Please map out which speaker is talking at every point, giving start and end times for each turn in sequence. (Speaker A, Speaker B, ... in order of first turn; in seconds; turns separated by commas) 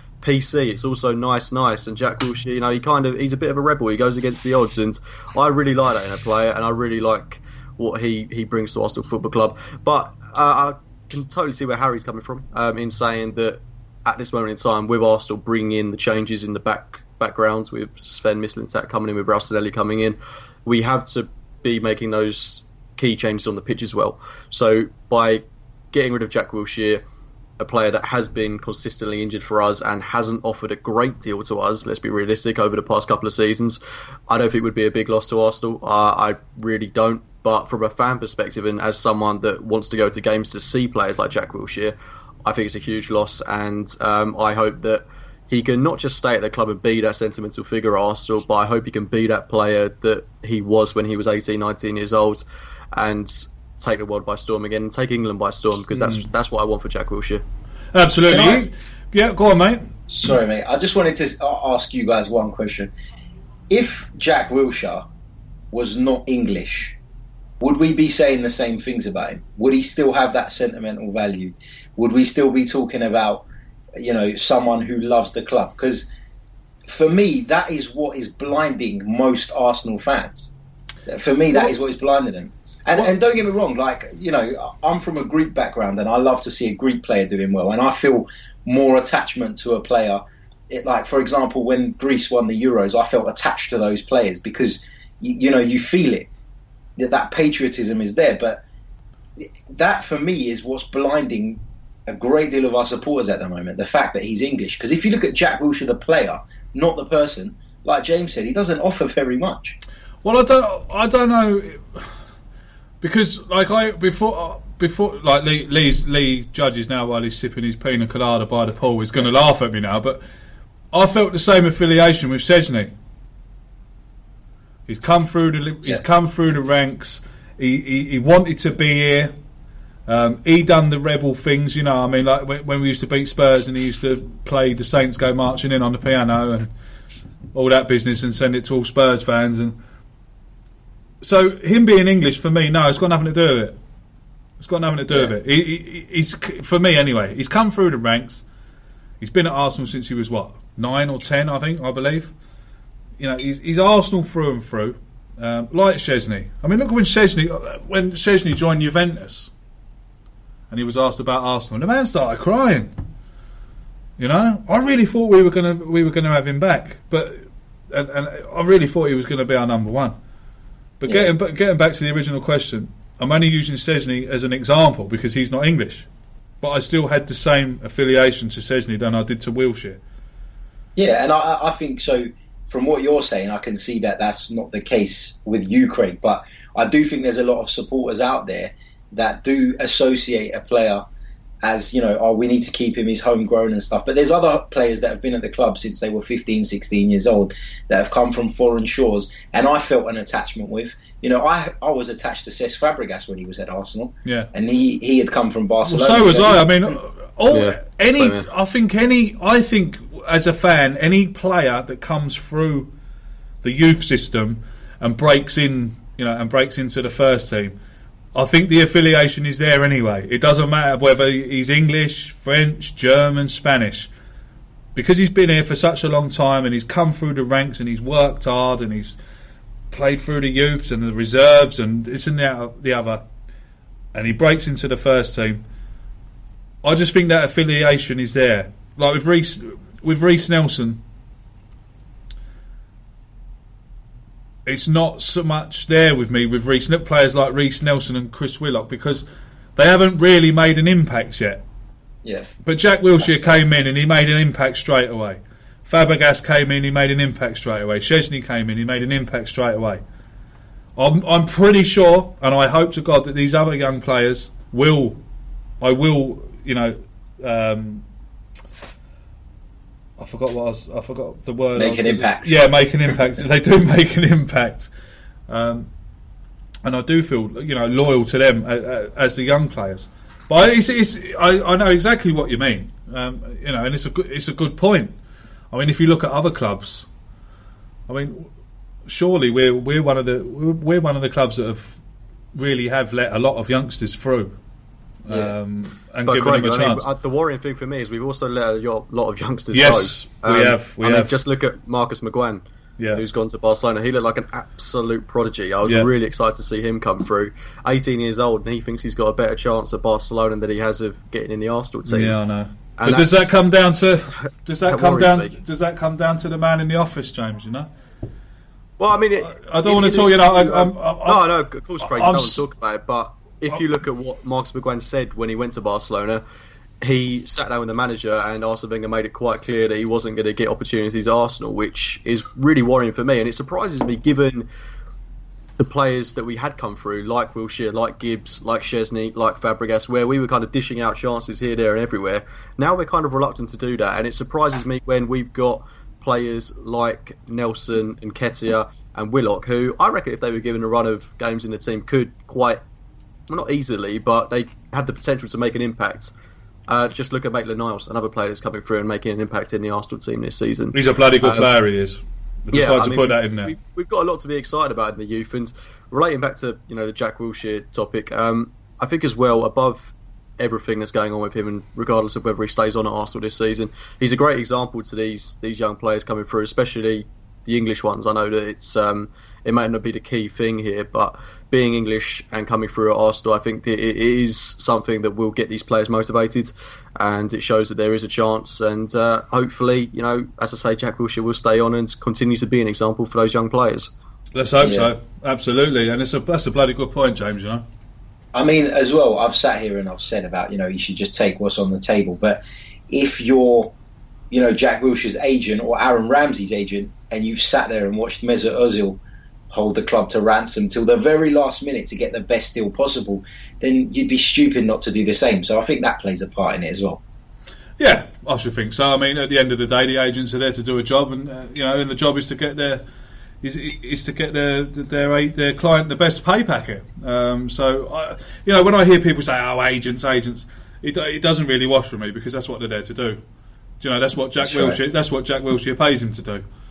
Speaker A: 0.2-27.0, Speaker A: 27.6-57.4, Speaker B: 55.9-56.2, Speaker B: 57.9-59.9, Speaker C: 58.3-58.6, Speaker C: 60.1-62.9, Speaker C: 63.7-65.0, Speaker C: 65.7-67.0, Speaker C: 67.6-73.5, Speaker C: 74.0-76.1, Speaker C: 76.8-80.5, Speaker C: 81.1-96.3, Speaker C: 97.0-98.6, Speaker C: 99.4-109.8, Speaker B: 110.2-112.1, Speaker B: 113.0-120.2, Speaker B: 120.9-122.9, Speaker B: 124.9-129.3, Speaker B: 130.1-136.7, Speaker B: 137.5-139.8, Speaker B: 141.2-143.8, Speaker B: 144.6-148.4, Speaker B: 149.2-152.3, Speaker B: 153.2-159.5, Speaker B: 160.7-162.9, Speaker B: 164.2-170.2, Speaker B: 171.0-176.1, Speaker B: 176.6-180.0, Speaker C: 180.9-191.0, Speaker C: 191.6-206.7, Speaker B: 204.2-204.5, Speaker B: 205.8-212.9, Speaker A: 207.5-208.5, Speaker B: 213.6-217.8, Speaker B: 218.3-224.1, Speaker B: 224.9-229.2, Speaker B: 229.9-233.2, Speaker B: 234.1-235.6, Speaker B: 236.8-241.0, Speaker B: 244.7-251.6, Speaker C: 252.2-252.5, Speaker B: 252.6-260.0, Speaker B: 260.9-265.2, Speaker B: 265.8-268.0, Speaker B: 270.2-274.9, Speaker C: 271.8-272.5, Speaker B: 275.5-275.9, Speaker B: 276.8-285.1, Speaker B: 285.7-287.1, Speaker B: 288.1-288.5, Speaker B: 289.1-292.0, Speaker B: 292.5-294.5, Speaker B: 295.2-297.0, Speaker A: 295.3-295.5, Speaker A: 296.2-312.4, Speaker B: 299.7-301.3, Speaker B: 303.0-303.2, Speaker B: 312.1-317.9, Speaker A: 313.0-313.5, Speaker A: 314.8-315.6, Speaker A: 319.0-326.4, Speaker B: 319.4-321.4, Speaker B: 322.1-322.6, Speaker A: 327.0-334.7, Speaker A: 335.8-352.8, Speaker A: 353.5-356.3, Speaker A: 356.9-361.7, Speaker B: 360.9-363.7, Speaker A: 362.7-394.1, Speaker B: 394.5-397.8, Speaker C: 394.8-395.1, Speaker C: 398.5-403.9, Speaker C: 404.5-409.2, Speaker C: 409.7-417.2, Speaker B: 418.0-423.0, Speaker B: 423.6-433.4, Speaker B: 434.0-436.6, Speaker C: 434.6-435.0